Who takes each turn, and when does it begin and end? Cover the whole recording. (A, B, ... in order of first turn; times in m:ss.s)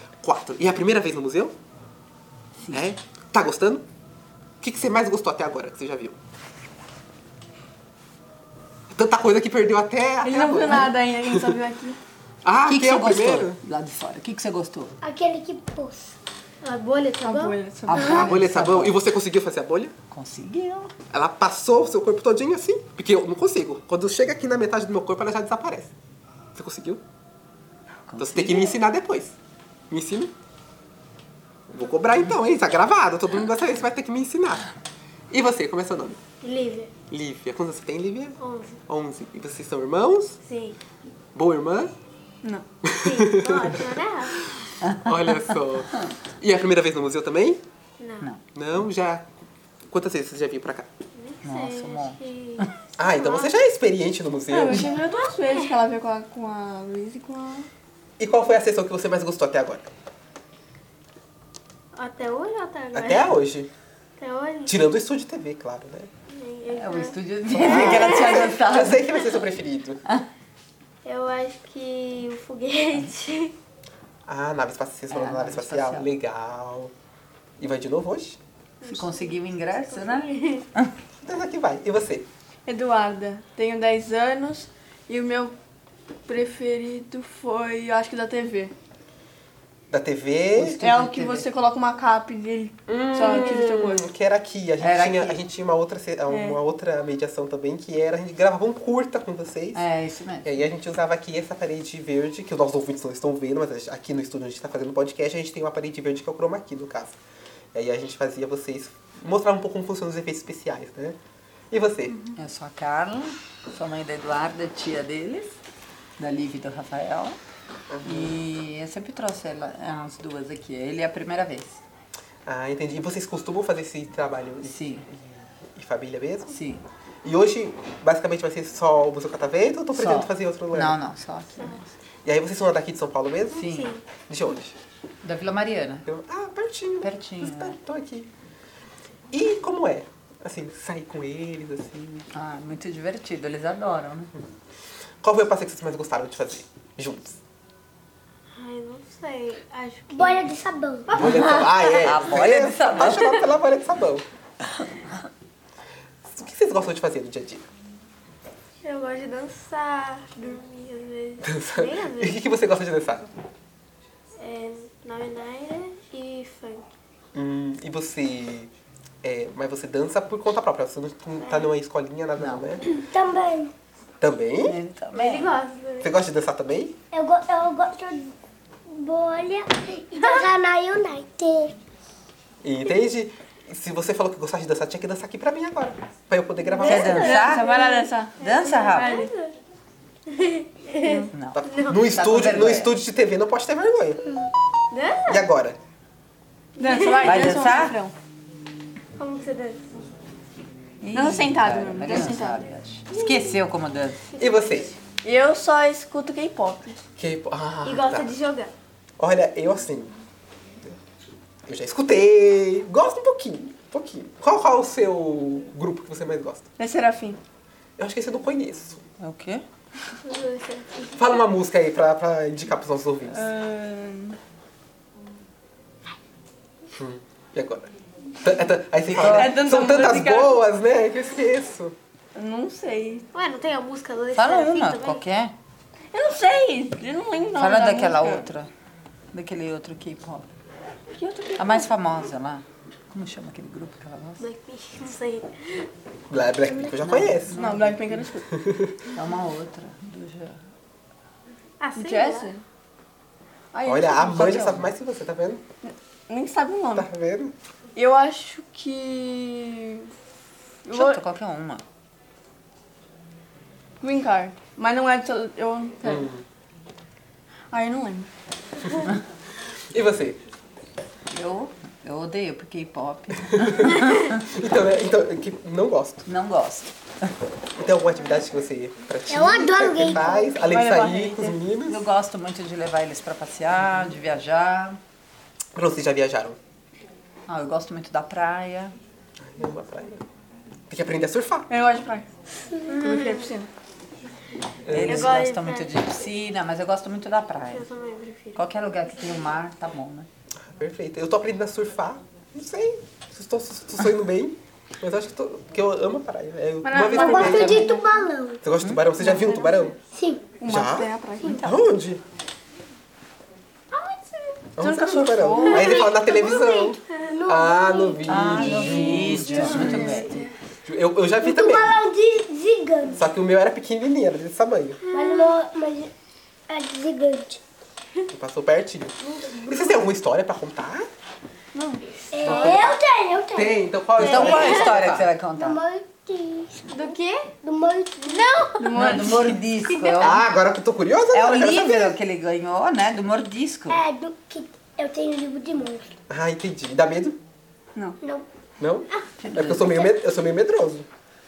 0:00.2-0:01.6 A
0:02.6-0:02.9 B
0:02.7-0:03.8 A
0:04.6-0:06.2 A
0:08.9-0:11.6 A
0:10.2-0:12.0 C
0:12.4-0:13.6 A
0:12.7-0:14.9 B
0:15.0-0:16.2 D
0:16.6-0:18.2 E
0:17.2-0:18.3 C
0:17.9-0:19.0 B
0:18.2-0:19.9 A
0:20.1-0:20.9 B
0:21.1-0:25.9 A
0:26.6-0:27.0 A
0:28.1-0:28.8 B
0:28.2-0:29.3 A
0:29.9-0:30.3 A
0:31.7-0:34.7 A
0:35.3-0:36.2 A
0:36.4-0:36.9 E
0:37.1-0:40.4 A
0:38.4-0:38.8 E
0:40.4-0:40.8 E
0:41.3-0:41.9 A
0:42.8-0:43.8 A
0:43.0-0:44.4 E
0:44.6-0:47.6 A
0:44.8-0:46.1 B
0:48.0-0:48.3 E
0:48.5-0:49.2 A
0:49.9-0:50.9 A
0:51.1-0:53.5 E
0:51.4-0:52.7 B
0:53.0-0:54.9 A
0:54.5-0:57.7 C
0:55.0-0:55.7 E
0:58.2-0:59.9 A
1:01.9-1:03.3 E
1:02.9-1:03.7 A
1:04.2-1:04.8 E
1:04.7-1:06.1 A
1:06.3-1:08.6 E
1:06.7-1:09.1 B
1:07.5-1:10.0 A
1:11.0-1:13.5 E
1:14.2-1:16.9 A
1:15.1-1:16.1 B
1:17.6-1:18.4 A
1:18.8-1:20.7 E
1:18.8-1:20.9 B
1:21.2-1:22.3 A
1:22.7-1:25.6 C
1:26.2-1:28.7 C
1:29.9-1:30.8 A
1:30.6-1:31.4 B
1:30.8-1:34.1 C
1:32.9-1:39.8 A
1:34.8-1:35.4 B
1:36.3-1:36.6 C
1:39.8-1:40.6 B
1:40.4-1:47.2 A
1:47.7-1:51.2 A
1:51.7-1:52.2 A
1:52.4-1:55.6 B
1:56.2-1:57.4 B
1:57.9-1:58.4 A
1:58.0-2:01.8 B
2:02.5-2:06.6 A
2:04.6-2:05.0 B
2:06.5-2:06.8 B
2:07.2-2:11.0 A
2:09.9-2:11.9 B
2:12.2-2:13.6 A
2:13.5-2:13.9 B
2:13.5-2:14.0 E
2:14.3-2:14.8 A
2:15.2-2:16.0 B
2:16.1-2:18.3 A
2:17.0-2:17.8 B
2:19.3-2:22.2 A
2:22.3-2:24.3 B
2:25.2-2:27.4 A
2:28.5-2:30.5 E
2:30.1-2:31.1 D
2:31.1-2:32.3 E
2:31.2-2:34.2 A
2:31.2-2:33.5 B
2:34.6-2:35.3 B
2:36.3-2:37.6 A
2:38.8-2:42.4 E
2:41.4-2:43.3 A
2:44.4-2:46.9 E
2:47.3-2:48.7 A
2:49.2-2:52.8 A
2:51.4-2:51.7 E
2:52.4-2:52.7 B
2:52.9-2:53.7 D
2:54.2-2:54.8 A
2:54.6-2:55.5 B
2:55.1-2:56.2 E
2:56.0-2:56.9 A
2:57.1-2:58.3 D
2:58.9-3:01.8 D
3:00.2-3:00.5 E
3:02.6-3:07.2 A
3:06.7-3:09.6 E
3:06.8-3:07.7 B
3:07.2-3:08.4 C
3:08.4-3:09.2 B
3:08.9-3:09.3 C
3:10.3-3:12.0 E
3:11.0-3:11.3 C
3:11.3-3:12.9 B
3:11.6-3:14.2 A
3:14.9-3:15.5 E
3:15.3-3:15.8 A
3:16.8-3:18.1 C
3:16.8-3:17.5 E
3:17.2-3:17.9 B
3:19.2-3:19.8 E
3:21.0-3:24.2 B
3:21.1-3:22.6 C
3:23.1-3:23.5 E
3:24.3-3:24.9 E
3:24.4-3:24.9 A
3:25.2-3:27.0 C
3:27.2-3:28.3 A
3:27.8-3:28.7 E
3:29.2-3:30.1 A
3:31.7-3:36.6 A
3:36.8-3:37.4 C
3:38.0-3:39.0 A
3:39.2-3:39.6 B
3:40.2-3:41.3 E
3:41.2-3:43.4 A
3:43.3-3:44.4 C
3:47.0-3:47.9 A
3:48.4-3:52.0 A
3:49.1-3:49.5 B
3:49.2-3:50.6 C
3:52.3-3:53.2 C
3:53.3-3:55.2 E
3:54.3-3:55.5 B
3:56.1-3:58.5 C
3:57.6-3:58.7 B
3:59.3-4:00.5 B
4:01.2-4:01.9 C
4:01.6-4:04.4 B
4:04.4-4:05.9 E
4:06.3-4:07.6 A
4:06.9-4:08.1 B
4:07.5-4:08.5 C
4:09.1-4:10.6 B
4:11.8-4:12.5 E
4:12.0-4:12.6 C
4:13.7-4:14.3 C
4:13.8-4:15.6 A
4:14.2-4:14.9 B
4:15.8-4:17.1 C
4:16.9-4:17.5 A
4:18.0-4:20.1 C
4:20.8-4:21.2 C
4:20.9-4:21.8 B
4:24.0-4:26.3 C
4:26.0-4:26.4 A
4:27.7-4:28.3 C
4:29.9-4:30.4 A
4:31.3-4:34.4 B
4:33.8-4:36.2 A
4:36.2-4:37.0 B
4:37.8-4:42.0 A
4:39.3-4:40.5 D
4:40.5-4:41.6 C
4:41.9-4:45.0 B
4:45.7-4:46.6 A
4:47.5-4:48.9 B
4:49.4-4:50.2 A
4:50.9-4:51.7 A
4:51.7-4:52.3 C
4:52.9-4:53.7 C
4:52.9-4:53.5 E
4:54.9-4:55.4 A
4:54.9-4:57.8 B
4:55.0-4:56.1 E
4:57.7-4:58.6 E
4:58.6-5:00.3 B
5:00.6-5:07.8 A
5:06.8-5:08.0 C
5:07.1-5:08.6 D
5:07.4-5:07.9 B
5:08.6-5:10.0 A
5:09.1-5:09.9 C
5:10.1-5:10.5 D
5:10.6-5:11.9 C
5:10.7-5:12.2 A
5:13.9-5:14.4 E
5:14.8-5:19.9 A
5:14.8-5:16.0 C
5:15.7-5:19.5 D
5:18.2-5:20.4 B
5:19.3-5:20.5 C
5:19.5-5:20.4 E
5:20.8-5:22.0 A
5:21.4-5:23.2 D
5:23.1-5:25.0 A
5:25.0-5:25.5 E
5:25.1-5:26.1 D
5:26.7-5:27.6 D
5:28.3-5:31.1 A
5:29.2-5:30.0 E
5:31.7-5:32.1 C
5:32.3-5:34.8 D
5:32.4-5:32.9 A
5:33.5-5:35.3 A
5:34.1-5:35.8 B
5:34.4-5:34.9 E
5:35.5-5:37.0 D
5:36.9-5:37.5 E
5:37.6-5:38.5 D
5:38.2-5:38.9 E
5:38.8-5:39.6 C
5:38.9-5:40.4 B
5:39.8-5:40.4 E
5:40.2-5:42.2 A
5:41.3-5:44.0 B
5:43.9-5:46.1 D
5:46.3-5:47.4 A
5:48.2-5:48.5 D
5:48.8-5:51.1 A
5:49.4-5:50.1 B